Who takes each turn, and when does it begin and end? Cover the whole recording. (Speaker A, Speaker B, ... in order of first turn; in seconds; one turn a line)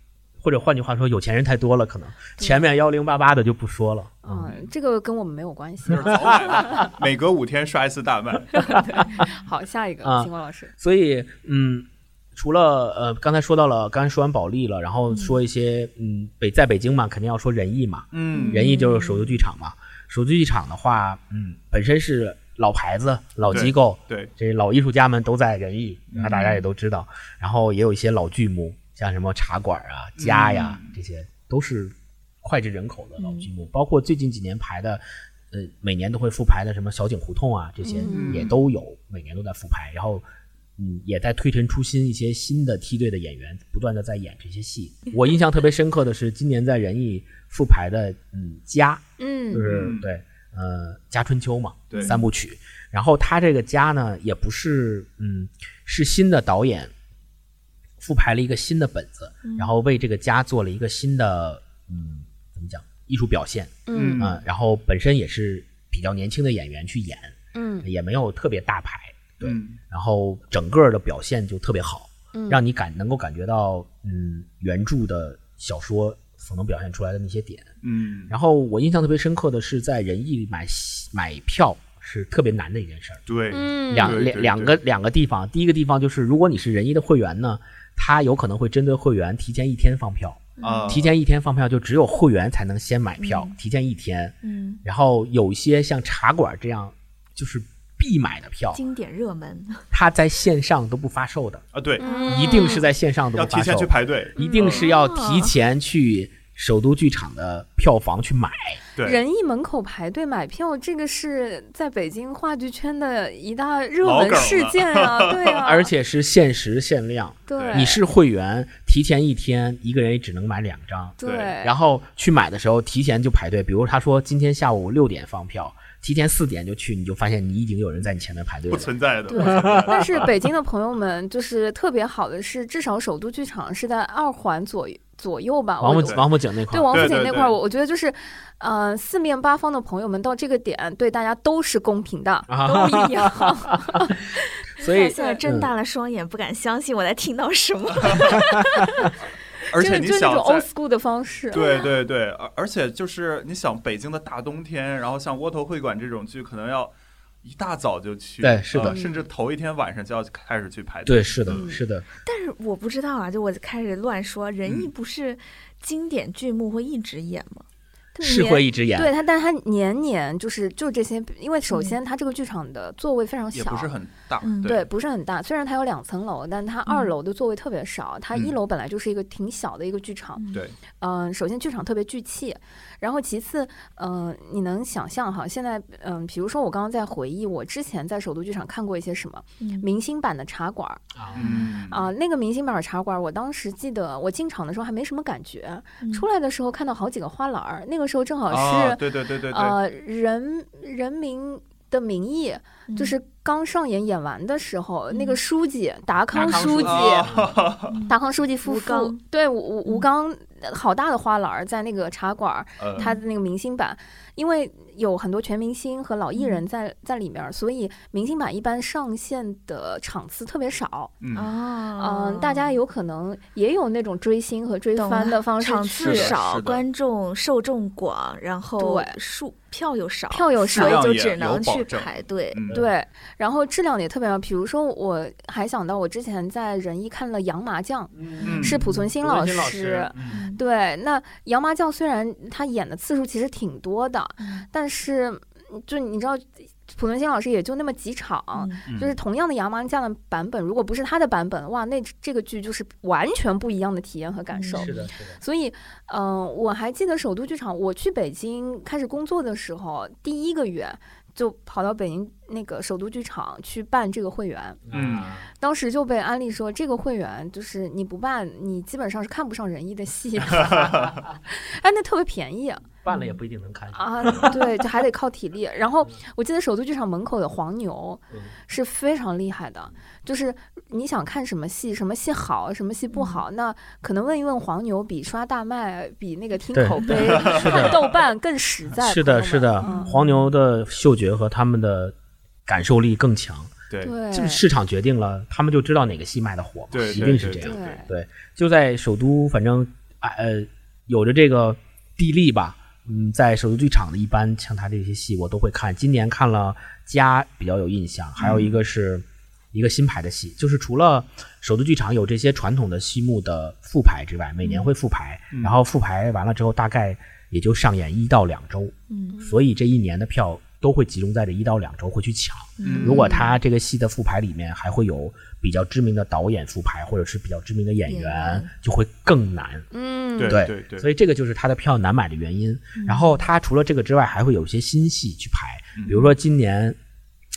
Speaker A: 0.4-4.6
Speaker B: 2.4-2.6
Speaker B: 4.2-6.6
Speaker C: 5.9-8.8
Speaker B: 8.6-10.7
Speaker A: 8.8-9.1
Speaker A: 10.0-40.2
Speaker C: 18.1-18.6
Speaker D: 18.3-19.4
Speaker C: 23.4-24.3
Speaker C: 26.1-26.4
Speaker D: 26.2-26.6
Speaker C: 30.2-30.9
Speaker D: 33.2-33.5
Speaker B: 37.8-38.4
Speaker C: 38.1-38.5
Speaker D: 38.1-38.4
Speaker A: 40.8-56.9
Speaker B: 49.2-49.8
Speaker C: 49.6-50.1
Speaker D: 51.9-52.2
Speaker A: 58.0-77.7
Speaker D: 59.4-59.7
Speaker B: 63.9-64.3
Speaker C: 63.9-64.3
Speaker B: 67.5-67.9
Speaker C: 69.4-69.8
Speaker B: 72.3-72.6
Speaker C: 77.8-78.3
Speaker A: 78.3-83.2
Speaker C: 83.3-84.8
Speaker B: 83.5-84.2
Speaker A: 83.9-98.8
Speaker D: 90.6-91.0
Speaker C: 90.6-91.0
Speaker D: 93.2-93.5
Speaker D: 94.4-94.8
Speaker D: 98.7-99.8
Speaker A: 99.9-101.7
Speaker C: 101.7-102.0
Speaker D: 102.0-102.8
Speaker B: 102.0-102.8
Speaker A: 102.2-108.8
Speaker C: 103.3-104.9
Speaker D: 104.4-105.5
Speaker B: 109.0-115.9
Speaker C: 114.0-115.6
Speaker A: 115.6-130.0
Speaker B: 117.5-118.0
Speaker C: 117.5-117.9
Speaker B: 121.2-121.7
Speaker C: 121.2-121.5
Speaker C: 128.7-130.3
Speaker B: 129.3-144.2
Speaker A: 135.8-137.2
Speaker C: 136.0-136.2
Speaker C: 136.9-137.5
Speaker A: 142.5-144.2
Speaker A: 144.8-145.7
Speaker D: 144.8-149.0
Speaker B: 144.8-145.4
Speaker C: 148.1-148.3
Speaker C: 149.7-150.7
Speaker B: 149.7-151.8
Speaker C: 151.5-161.7
Speaker D: 151.5-151.8
Speaker A: 158.4-159.0
Speaker B: 158.8-159.2
Speaker A: 161.1-162.1
Speaker B: 161.5-161.8
Speaker D: 162.2-167.6
Speaker C: 164.6-164.9
Speaker B: 168.2-173.9
Speaker A: 168.2-169.1
Speaker D: 171.7-172.0
Speaker C: 173.5-174.8
Speaker D: 174.4-174.7
Speaker B: 174.6-180.4
Speaker D: 176.9-177.1
Speaker D: 180.4-180.6
Speaker B: 181.0-207.3
Speaker D: 189.6-189.8
Speaker A: 191.1-191.6
Speaker C: 191.3-192.1
Speaker D: 196.0-196.2
Speaker C: 198.5-199.7
Speaker D: 202.9-203.1
Speaker D: 205.1-205.4
Speaker A: 206.3-207.5
Speaker C: 206.4-207.9
Speaker D: 207.9-209.2
Speaker B: 208.1-221.1
Speaker C: 212.8-213.1
Speaker D: 216.3-216.6
Speaker C: 221.2-221.5
Speaker D: 221.3-222.7
Speaker B: 222.0-226.3
Speaker D: 225.0-232.6
Speaker C: 226.0-226.8
Speaker B: 228.8-229.2
Speaker B: 230.3-231.0
Speaker C: 230.7-232.8
Speaker B: 232.7-264.8
Speaker A: 238.1-240.4
Speaker C: 238.4-238.8
Speaker D: 240.3-240.6
Speaker D: 244.4-244.7
Speaker D: 248.5-248.8
Speaker D: 254.5-254.9
Speaker A: 254.7-255.4
Speaker A: 264.8-265.5
Speaker C: 264.9-265.3
Speaker B: 265.6-273.0
Speaker C: 270.6-271.1
Speaker A: 270.9-271.3
Speaker A: 273.0-274.6
Speaker D: 273.1-273.4
Speaker B: 273.9-290.2
Speaker D: 283.1-283.4
Speaker A: 286.7-288.1
Speaker C: 287.1-288.0
Speaker A: 289.0-292.1
Speaker D: 289.8-290.2
Speaker A: 292.6-293.8
Speaker C: 293.9-294.1
Speaker B: 294.0-294.6
Speaker A: 294.3-329.9
Speaker C: 296.9-297.8
Speaker B: 297.6-298.1
Speaker C: 308.4-308.8
Speaker D: 314.6-314.9
Speaker D: 319.1-319.4
Speaker D: 322.8-323.5
Speaker C: 322.8-323.2
Speaker B: 323.0-323.5
Speaker D: 328.1-328.7
Speaker B: 329.9-330.6
Speaker C: 330.4-331.1
Speaker A: 330.4-337.0
Speaker D: 332.9-333.4